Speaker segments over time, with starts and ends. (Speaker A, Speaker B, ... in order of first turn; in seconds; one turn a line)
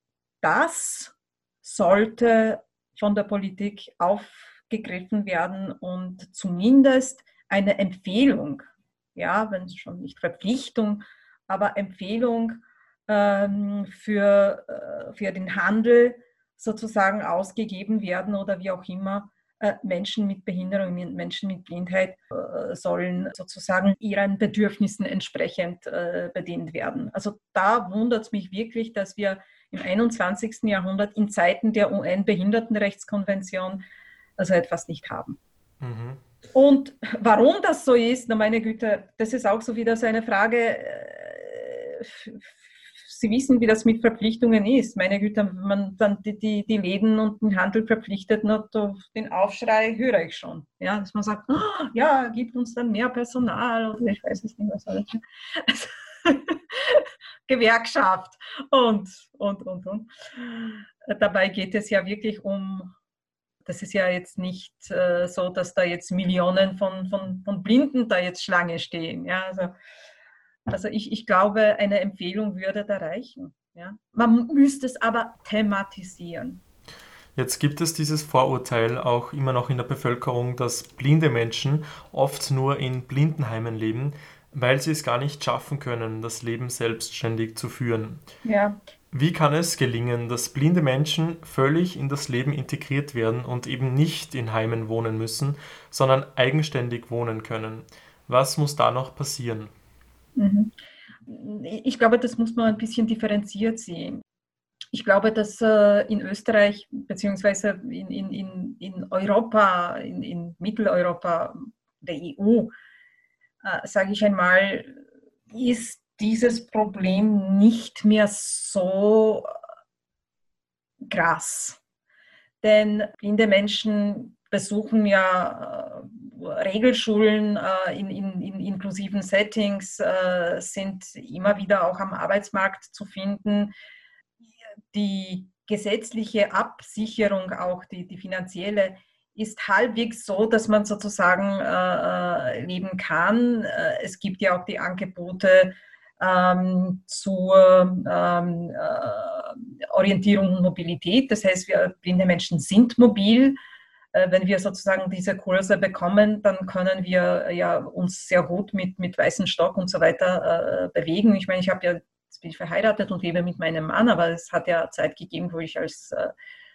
Speaker A: 0.4-33.8
Speaker A: 34.4-35.4
Speaker B: 35.8-36.2
Speaker A: 36.5-42.5
Speaker A: 43.0-62.9
Speaker A: 63.6-69.7
Speaker A: 70.7-76.6
Speaker B: 77.3-88.2
Speaker A: 88.4-88.8
Speaker B: 89.1-99.7
Speaker A: 100.3-100.7
Speaker A: 101.2-104.2
Speaker A: 104.9-112.7
Speaker A: 113.6-115.0
Speaker A: 115.5-119.5
Speaker A: 121.1-121.8
Speaker A: 122.6-133.7
Speaker A: 134.9-153.6
Speaker A: 154.1-166.3